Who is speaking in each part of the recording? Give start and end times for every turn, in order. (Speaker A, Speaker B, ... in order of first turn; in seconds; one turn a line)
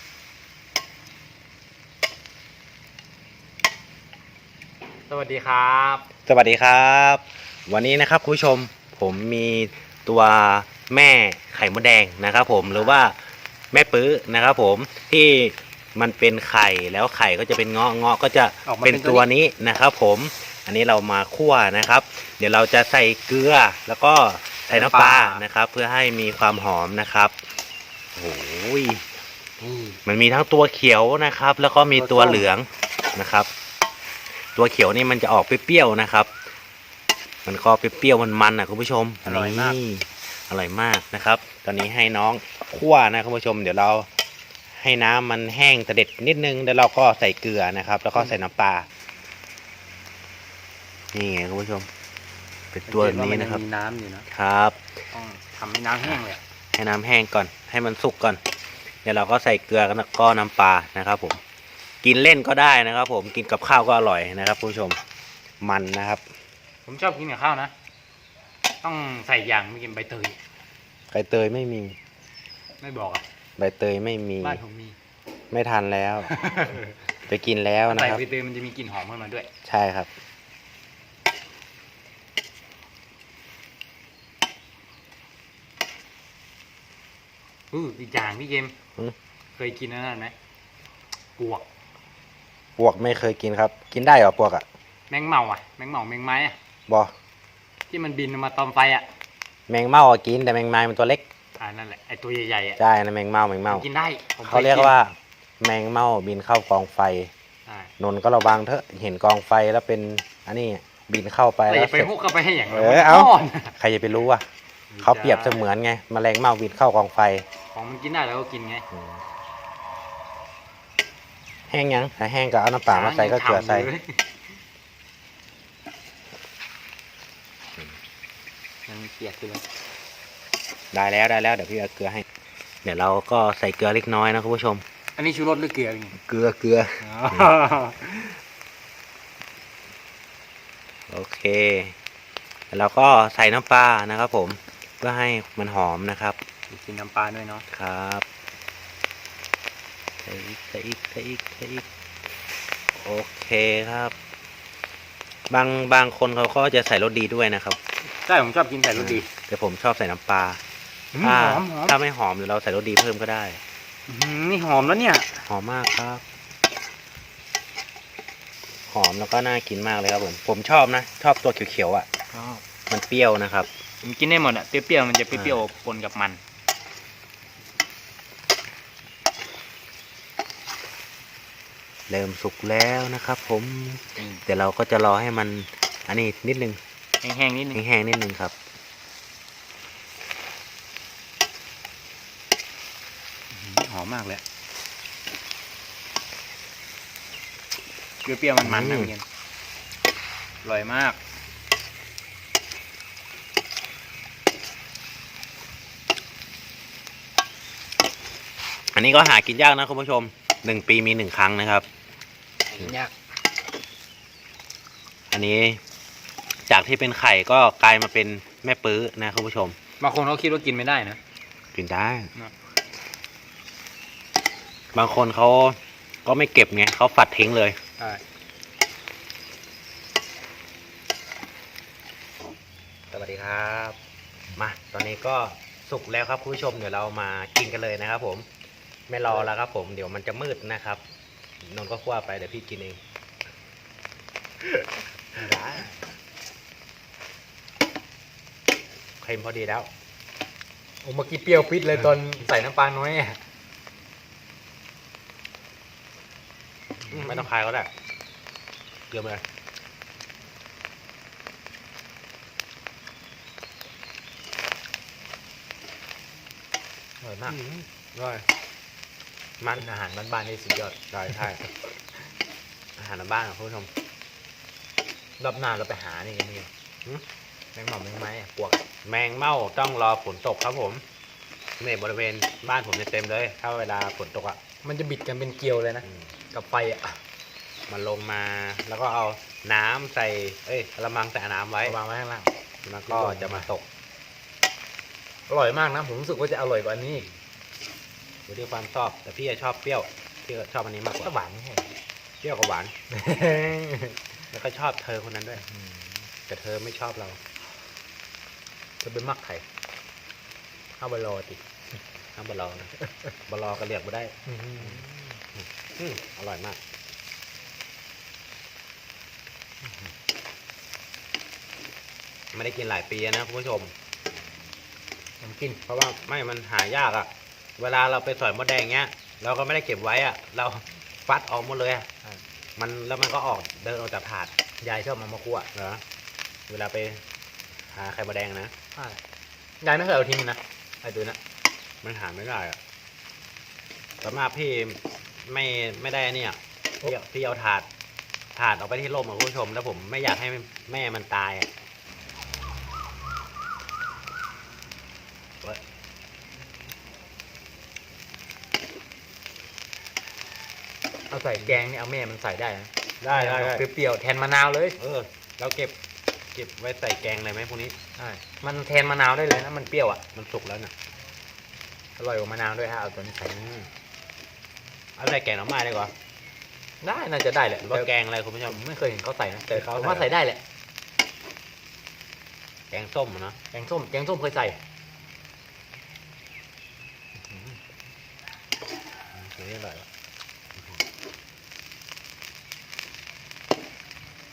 Speaker A: 5.1-6.1
Speaker B: 6.2-13.2
Speaker A: 12.7-13.0
Speaker B: 13.7-27.3
Speaker A: 18.6-19.3
Speaker A: 24.7-25.4
Speaker B: 28.1-29.0
Speaker A: 29.6-30.0
Speaker B: 30.0-33.5
Speaker A: 31.9-32.5
Speaker B: 34.4-36.3
Speaker B: 37.5-44.1
Speaker A: 39.2-39.8
Speaker B: 44.8-48.9
Speaker B: 51.1-51.9
Speaker B: 52.7-53.6
Speaker A: 52.9-54.3
Speaker B: 54.3-54.8
Speaker A: 55.1-56.4
Speaker B: 56.7-58.4
Speaker B: 59.0-61.4
Speaker B: 62.0-65.0
Speaker B: 65.6-66.2
Speaker A: 66.8-67.7
Speaker A: 68.8-70.4
Speaker B: 71.1-72.0
Speaker A: 72.8-73.2
Speaker B: 73.6-74.6
Speaker A: 74.4-75.0
Speaker B: 75.5-76.3
Speaker A: 76.3-76.9
Speaker B: 77.3-78.2
Speaker A: 77.9-79.5
Speaker B: 79.6-80.1
Speaker A: 87.7-88.7
Speaker A: 89.5-90.3
Speaker A: 91.4-91.6
Speaker B: 92.8-94.7
Speaker A: 95.1-96.6
Speaker A: 97.9-99.1
Speaker B: 99.7-101.2
Speaker A: 101.6-102.8
Speaker B: 102.8-103.8
Speaker A: 103.7-104.9
Speaker B: 104.5-107.3
Speaker A: 107.7-107.9
Speaker B: 108.0-112.1
Speaker A: 111.7-113.7
Speaker B: 112.7-114.4
Speaker A: 114.9-115.7
Speaker B: 115.0-117.4
Speaker A: 117.7-118.8
Speaker B: 118.9-119.2
Speaker B: 121.7-123.9
Speaker A: 122.9-124.2
Speaker A: 128.9-129.6
Speaker B: 130.9-132.2
Speaker B: 132.8-134.8
Speaker A: 135.2-136.2
Speaker B: 136.2-137.5
Speaker A: 137.0-138.3
Speaker B: 141.1-141.9
Speaker B: 142.7-146.4
Speaker A: 146.7-147.6
Speaker B: 147.7-148.2
Speaker B: 150.2-151.8
Speaker B: 152.9-154.1
Speaker B: 155.5-157.8
Speaker A: 158.2-159.3
Speaker B: 158.9-160.6
Speaker A: 161.1-162.0
Speaker B: 161.2-163.6
Speaker A: 164.1-165.4
Speaker B: 165.5-166.2
Speaker B: 168.9-172.1
Speaker A: 172.3-172.6
Speaker B: 172.9-173.7
Speaker A: 174.0-176.4
Speaker B: 175.3-175.7
Speaker B: 182.1-186.8
Speaker A: 184.2-184.4
Speaker A: 187.2-187.8
Speaker B: 187.7-188.5
Speaker A: 193.5-194.4
Speaker A: 198.2-199.2
Speaker B: 198.6-199.1
Speaker A: 200.6-201.2
Speaker B: 208.9-211.8
Speaker A: 212.7-213.1
Speaker B: 215.3-215.8
Speaker B: 216.7-219.8
Speaker A: 220.0-221.2
Speaker B: 221.7-222.3
Speaker B: 224.9-227.8
Speaker B: 233.1-234.0
Speaker B: 234.5-238.4
Speaker B: 239.1-241.0
Speaker B: 241.6-243.0
Speaker A: 245.3-246.1
Speaker B: 249.2-249.9
Speaker A: 251.0-253.4
Speaker A: 257.1-257.4
Speaker B: 257.1-257.9
Speaker B: 259.1-259.4
Speaker A: 267.2-267.6
Speaker B: 267.5-268.4
Speaker A: 269.8-271.7
Speaker B: 271.1-271.6
Speaker B: 273.0-273.9
Speaker A: 275.4-276.7
Speaker A: 277.7-278.8
Speaker B: 279.0-281.0
Speaker B: 281.8-284.6
Speaker A: 284.8-287.2
Speaker B: 287.9-291.9
Speaker A: 291.8-292.5
Speaker B: 292.8-293.8
Speaker A: 293.1-293.7
Speaker A: 295.5-297.3
Speaker B: 298.5-301.3
Speaker A: 301.2-301.9
Speaker B: 302.4-302.9
Speaker A: 303.1-304.2
Speaker B: 304.5-305.6
Speaker A: 305.6-306.3
Speaker B: 306.5-307.4
Speaker A: 309.0-309.6
Speaker A: 311.0-311.6
Speaker B: 312.4-312.9
Speaker A: 313.0-313.3
Speaker B: 313.5-315.1
Speaker A: 314.5-315.4
Speaker B: 315.6-316.8
Speaker A: 319.8-320.1
Speaker B: 322.5-323.9
Speaker A: 325.4-325.8
Speaker B: 325.9-332.1
Speaker B: 332.8-334.5
Speaker A: 334.8-335.7
Speaker B: 335.7-336.0
Speaker B: 336.7-337.2
Speaker B: 337.9-338.7
Speaker A: 338.9-339.2
Speaker A: 339.8-341.4
Speaker B: 342.0-342.8
Speaker B: 344.2-347.9
Speaker B: 348.5-351.7
Speaker A: 361.3-365.0
Speaker B: 363.2-363.9
Speaker B: 365.0-365.9
Speaker B: 366.5-367.9
Speaker A: 368.2-370.2
Speaker B: 370.3-370.9
Speaker A: 372.2-373.7
Speaker B: 373.6-373.9
Speaker B: 375.2-376.1
Speaker A: 377.0-378.1
Speaker B: 377.8-378.8
Speaker A: 378.6-380.6
Speaker B: 379.7-380.3
Speaker B: 382.9-383.6
Speaker A: 383.7-384.8
Speaker B: 389.3-390.1
Speaker B: 390.8-391.0